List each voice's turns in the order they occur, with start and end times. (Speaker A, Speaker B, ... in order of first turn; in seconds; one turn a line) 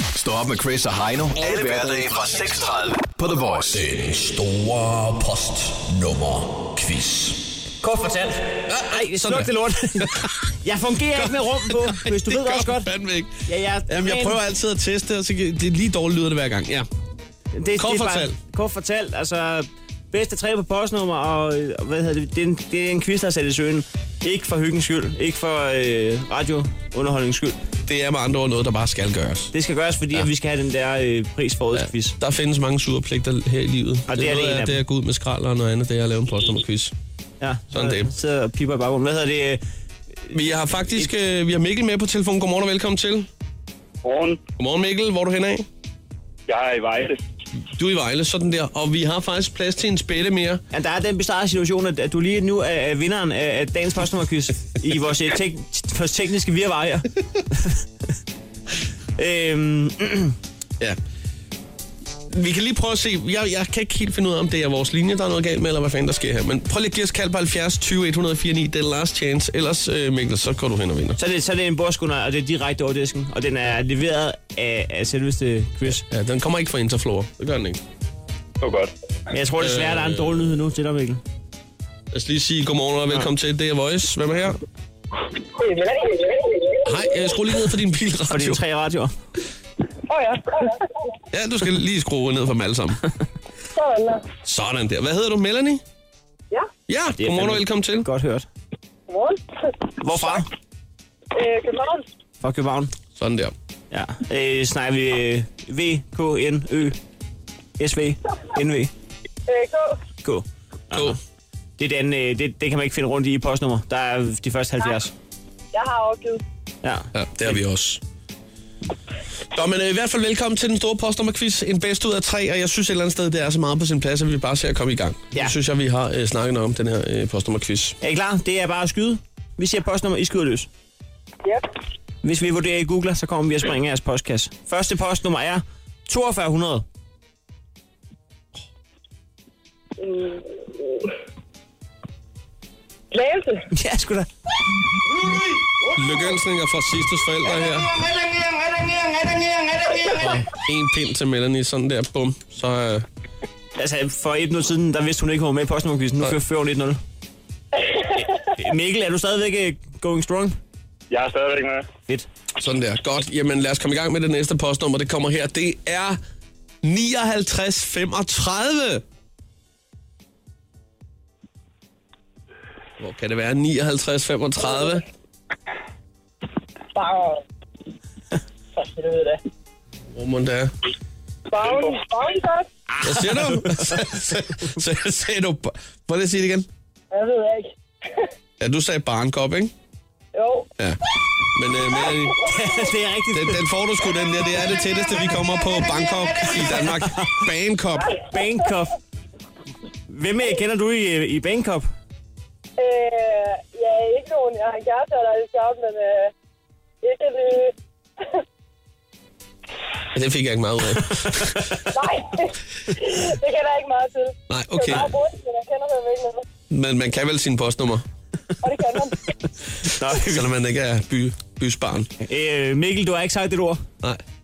Speaker A: 0.1-3.8
Speaker B: 1.4-2.1
Speaker B: 3.7-7.5
Speaker C: 7.8-12.9
Speaker B: 8.7-10.5
Speaker B: 11.1-16.9
Speaker C: 13.4-14.4
Speaker C: 17.5-27.6
Speaker B: 17.8-18.4
Speaker B: 27.8-29.5
Speaker C: 29.5-32.1
Speaker B: 31.7-36.9
Speaker C: 34.1-34.8
Speaker C: 37.4-39.6
Speaker B: 37.7-38.1
Speaker B: 40.3-43.3
Speaker D: 44.0-44.4
Speaker B: 44.6-45.6
Speaker D: 46.5-47.2
Speaker B: 47.7-50.6
Speaker C: 50.7-57.8
Speaker C: 59.2-60.4
Speaker B: 62.3-71.2
Speaker C: 71.2-76.0
Speaker B: 76.1-77.8
Speaker D: 78.6-78.9
Speaker C: 79.3-81.2
Speaker B: 79.6-80.6
Speaker B: 82.1-84.6
Speaker E: 85.6-86.8
Speaker B: 86.8-88.6
Speaker C: 88.3-89.1
Speaker E: 90.1-90.7
Speaker B: 91.3-93.0
Speaker E: 93.7-94.2
Speaker B: 94.4-95.8
Speaker B: 96.9-98.1
Speaker C: 97.2-98.5
Speaker E: 99.1-99.4
Speaker C: 100.0-100.5
Speaker E: 101.3-102.0
Speaker C: 102.4-102.9
Speaker B: 103.2-103.5
Speaker C: 103.9-107.0
Speaker C: 107.8-108.9
Speaker E: 109.5-110.0
Speaker C: 110.2-111.2
Speaker B: 110.9-111.2
Speaker C: 111.8-115.1
Speaker E: 115.7-116.4
Speaker C: 116.8-117.1
Speaker B: 117.1-118.0
Speaker B: 119.5-128.0
Speaker C: 128.0-130.7
Speaker C: 132.2-136.8
Speaker E: 140.0-141.0
Speaker E: 143.1-143.6
Speaker C: 143.7-144.3
Speaker B: 145.9-148.1
Speaker B: 150.0-153.1
Speaker C: 153.8-157.0
Speaker C: 158.2-160.6
Speaker D: 161.1-161.8
Speaker B: 162.6-166.2
Speaker B: 166.8-169.0
Speaker B: 173.0-175.0
Speaker E: 176.9-177.4
Speaker E: 178.8-179.4
Speaker B: 180.1-180.7
Speaker E: 181.5-182.7
Speaker C: 182.9-184.0
Speaker B: 183.0-186.7
Speaker E: 187.1-187.7
Speaker B: 188.6-189.7
Speaker E: 190.3-190.7
Speaker B: 190.8-192.5
Speaker C: 192.4-193.6
Speaker B: 193.3-198.1
Speaker C: 196.6-197.4
Speaker C: 198.3-198.9
Speaker C: 200.1-201.9
Speaker E: 202.8-206.3
Speaker E: 207.0-207.7
Speaker B: 210.1-211.7
Speaker E: 211.9-216.4
Speaker B: 214.5-215.1
Speaker B: 216.7-218.0
Speaker E: 218.6-219.2
Speaker C: 219.8-220.5
Speaker B: 220.1-222.1
Speaker C: 222.2-223.8